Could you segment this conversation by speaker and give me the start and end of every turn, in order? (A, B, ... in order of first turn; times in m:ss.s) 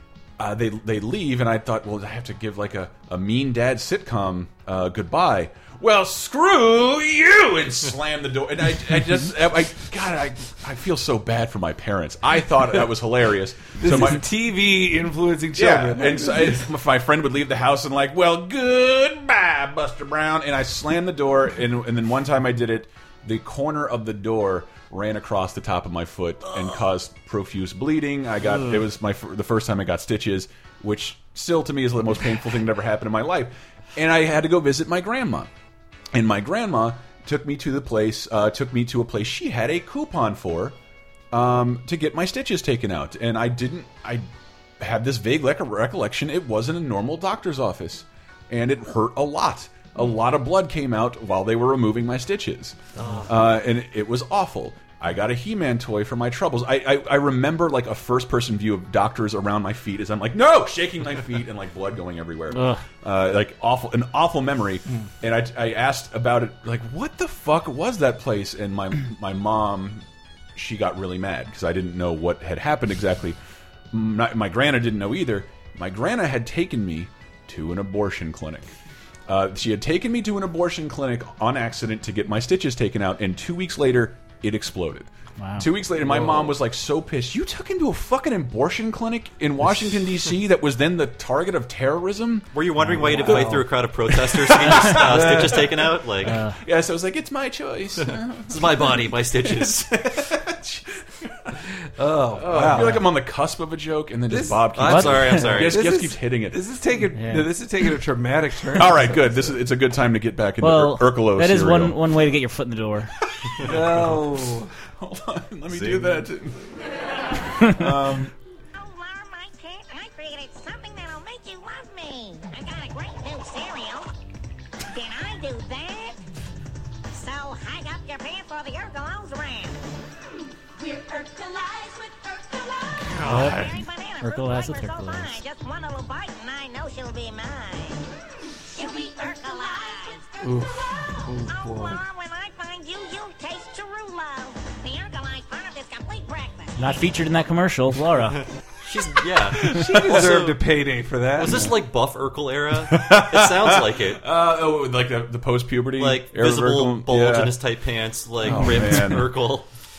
0:00.4-0:14.2 A
0:13.8-0:16.7 B
0:15.6-0:35.5 A
0:36.1-0:40.8 A
0:41.3-0:44.3 A
0:44.8-1:10.0 A
1:02.5-1:02.8 C
1:10.6-1:13.4 A
1:13.9-1:18.7 A
1:19.3-1:41.6 A
1:25.4-1:25.7 C
1:26.1-1:26.5 B
1:32.5-1:36.4 D
1:32.8-1:33.6 C
1:36.2-1:36.6 C
1:38.0-1:39.8 D
1:42.0-1:43.1 B
1:42.3-1:46.7 A
1:44.3-1:44.7 B
1:44.8-1:45.8 D
1:44.8-1:45.5 C
1:45.6-1:49.6 B
1:47.2-1:47.5 C
1:48.7-1:52.0 A
1:50.6-1:53.1 C
1:53.4-1:56.7 A
1:53.6-1:54.7 B
1:57.6-1:58.3 A
1:58.8-2:04.1 E
2:04.9-2:06.2 E
2:07.1-2:09.8 E
2:10.8-2:18.0 E
2:13.0-2:13.7 A
2:13.2-2:15.3 C
2:18.8-2:20.6 E
2:20.4-2:22.0 B
2:21.3-2:27.1 E
2:26.8-2:28.4 C
2:28.3-2:30.6 D
2:29.8-2:30.2 A
2:29.8-2:31.6 B
2:31.4-2:34.2 D
2:31.5-2:31.8 A
2:32.9-2:37.6 A
2:36.0-2:39.7 D
2:38.4-2:39.5 A